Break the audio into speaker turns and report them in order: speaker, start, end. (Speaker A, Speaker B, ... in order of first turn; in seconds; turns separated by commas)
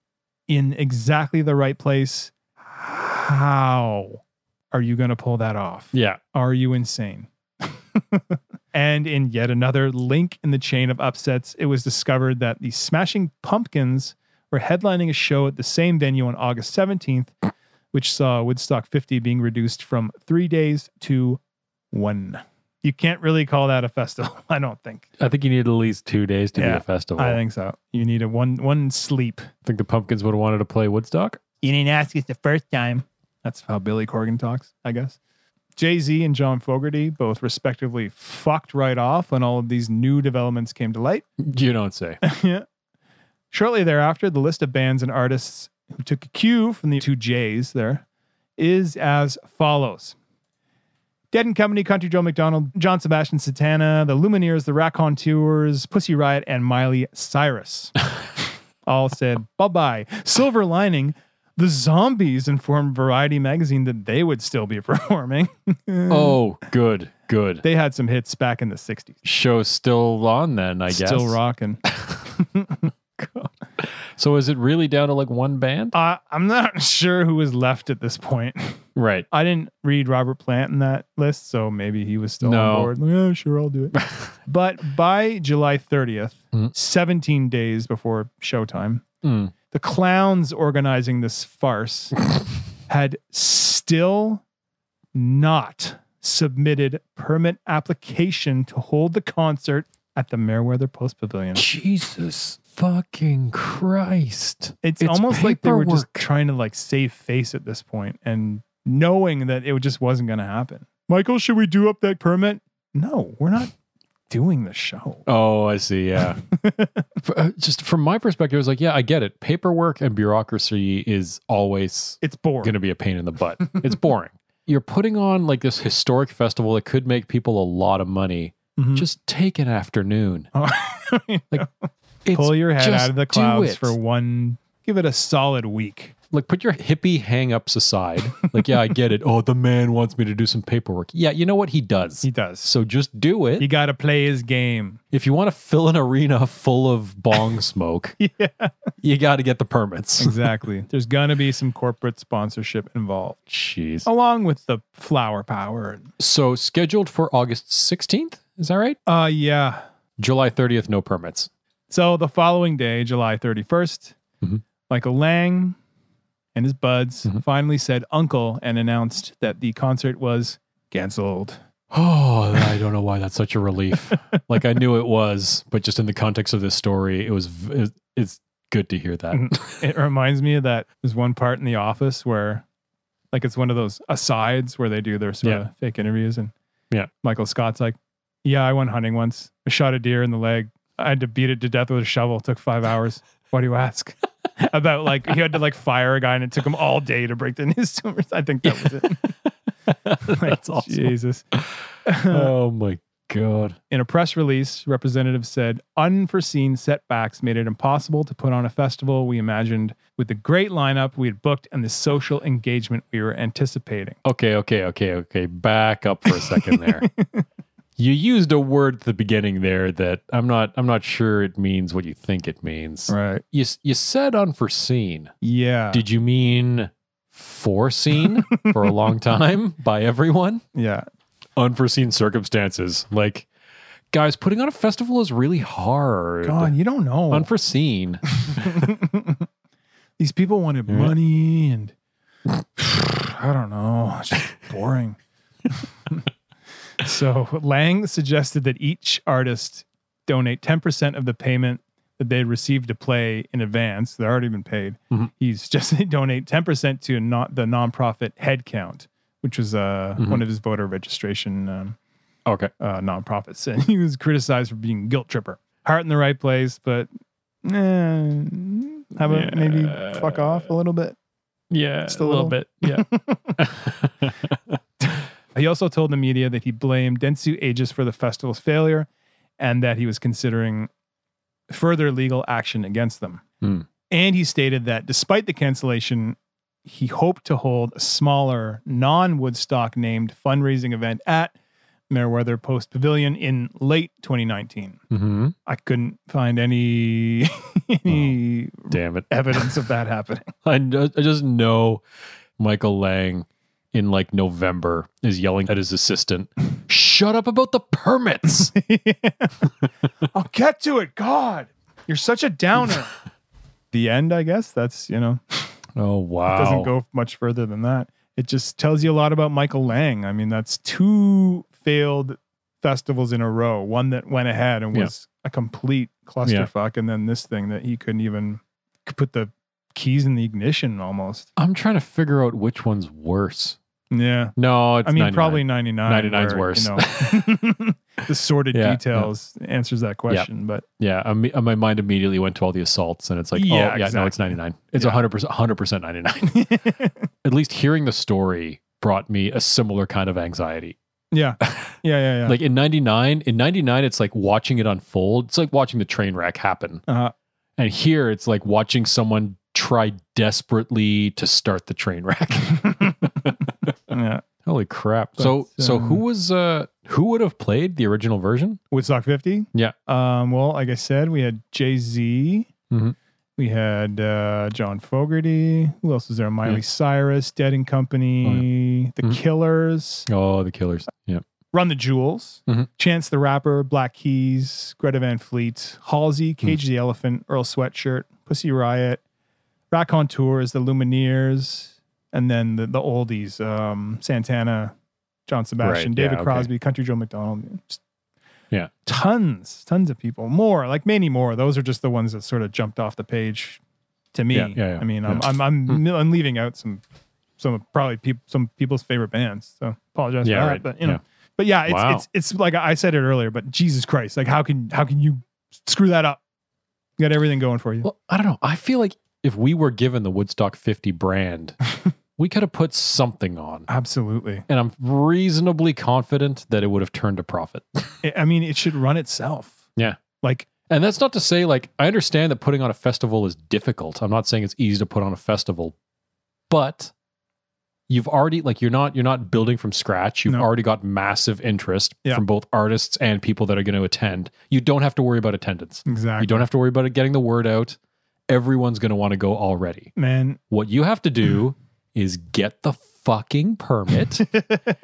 Speaker A: 0.5-4.2, Speaker A: 4.7-17.3, Speaker B: 5.9-6.2, Speaker A: 17.9-21.4, Speaker A: 21.9-25.1, Speaker B: 25.2-27.4, Speaker A: 26.6-29.5, Speaker B: 29.6-31.4, Speaker A: 31.6-35.2, Speaker A: 35.8-41.2, Speaker B: 41.4-42.2, Speaker A: 42.2-42.6, Speaker A: 43.5-48.0, Speaker A: 48.6-50.2, Speaker A: 51.3-58.1, Speaker A: 58.9-66.4, Speaker B: 66.1-67.6, Speaker A: 67.6-69.2, Speaker B: 69.2-72.3, Speaker A: 70.9-72.9, Speaker B: 73.2-76.0, Speaker A: 75.9-89.0, Speaker B: 79.0-79.3, Speaker B: 82.4-82.9, Speaker B: 89.2-89.5, Speaker A: 89.7-92.2, Speaker A: 92.9-94.4, Speaker A: 95.2-101.7, Speaker B: 101.5-106.2, Speaker A: 104.8-113.7, Speaker A: 114.3-115.2, Speaker B: 115.3-116.4, Speaker A: 116.5-117.1, Speaker B: 117.2-130.5, Speaker A: 122.2-122.7, Speaker A: 128.8-129.1, Speaker A: 130.6-131.7, Speaker B: 132.2-134.0, Speaker A: 132.3-136.1, Speaker B: 136.3-143.7, Speaker A: 142.2-142.7, Speaker A: 143.6-145.0, Speaker B: 145.1-148.2, Speaker A: 148.2-148.7, Speaker B: 149.0-150.4, Speaker A: 150.2-153.4, Speaker B: 153.5-154.1, Speaker A: 154.1-156.1, Speaker B: 156.2-159.0, Speaker A: 159.1-159.8, Speaker B: 160.2-161.5, Speaker A: 161.9-164.2, Speaker A: 164.9-165.8, Speaker A: 166.6-171.6, Speaker B: 171.9-179.8, Speaker A: 179.3-182.6, Speaker A: 183.3-186.5, Speaker A: 187.2-199.3, Speaker B: 198.7-203.8, Speaker A: 200.2-201.4, Speaker A: 202.1-202.5, Speaker A: 203.9-214.2, Speaker B: 214.2-217.1, Speaker A: 216.3-217.4, Speaker B: 218.0-225.3, Speaker A: 223.1-223.4, Speaker A: 225.4-226.0, Speaker B: 225.9-230.6, Speaker A: 228.5-228.8, Speaker A: 230.8-231.1, Speaker B: 231.6-233.5, Speaker B: 234.1-236.8, Speaker A: 236.4-237.5, Speaker B: 237.3-238.9, Speaker A: 238.4-239.4, Speaker A: 240.2-241.9, Speaker B: 240.9-241.1, Speaker A: 242.8-245.2, Speaker A: 247.0-262.0, Speaker B: 262.5-262.7, Speaker A: 262.8-267.1, Speaker A: 267.6-271.2, Speaker B: 269.2-270.7, Speaker B: 271.7-274.8, Speaker A: 272.1-273.6, Speaker A: 275.5-279.1, Speaker A: 279.6-280.9, Speaker A: 281.7-283.4, Speaker A: 284.1-291.6, Speaker A: 292.1-295.0, Speaker B: 295.1-295.6, Speaker A: 295.7-300.5, Speaker B: 298.1-298.4, Speaker B: 298.9-299.7, Speaker B: 300.6-302.0, Speaker B: 302.6-308.7, Speaker A: 308.5-313.1, Speaker A: 313.9-315.7, Speaker B: 316.0-316.9, Speaker A: 316.5-331.5, Speaker B: 331.6-333.8, Speaker A: 334.1-340.9, Speaker B: 334.6-337.6, Speaker B: 338.7-339.3, Speaker B: 341.0-346.8, Speaker A: 343.6-345.2, Speaker A: 346.5-347.3, Speaker B: 347.4-351.0, Speaker A: 351.3-352.6, Speaker B: 351.6-351.9, Speaker B: 352.5-357.0, Speaker A: 357.1-357.3, Speaker B: 357.8-363.9, Speaker A: 362.7-363.6, Speaker A: 364.1-364.4, Speaker B: 364.6-368.8, Speaker A: 365.4-366.2, Speaker A: 368.9-372.7, Speaker A: 373.6-380.3, Speaker B: 380.3-381.4, Speaker A: 381.7-389.2, Speaker A: 389.9-394.9, Speaker A: 395.5-398.0, Speaker B: 395.8-396.7, Speaker A: 399.1-403.8, Speaker A: 404.3-407.0, Speaker B: 404.5-406.0, Speaker A: 407.6-416.4, Speaker B: 410.4-411.2, Speaker B: 411.9-412.2, Speaker A: 417.2-418.1, Speaker B: 418.0-421.8, Speaker B: 422.4-423.9, Speaker A: 423.9-424.6, Speaker B: 424.7-428.2, Speaker A: 428.2-429.8, Speaker A: 430.4-430.7, Speaker B: 430.9-435.9, Speaker B: 436.7-437.1, Speaker B: 438.1-448.0, Speaker A: 446.1-446.7, Speaker B: 448.5-450.1, Speaker A: 450.2-450.6, Speaker B: 450.7-454.6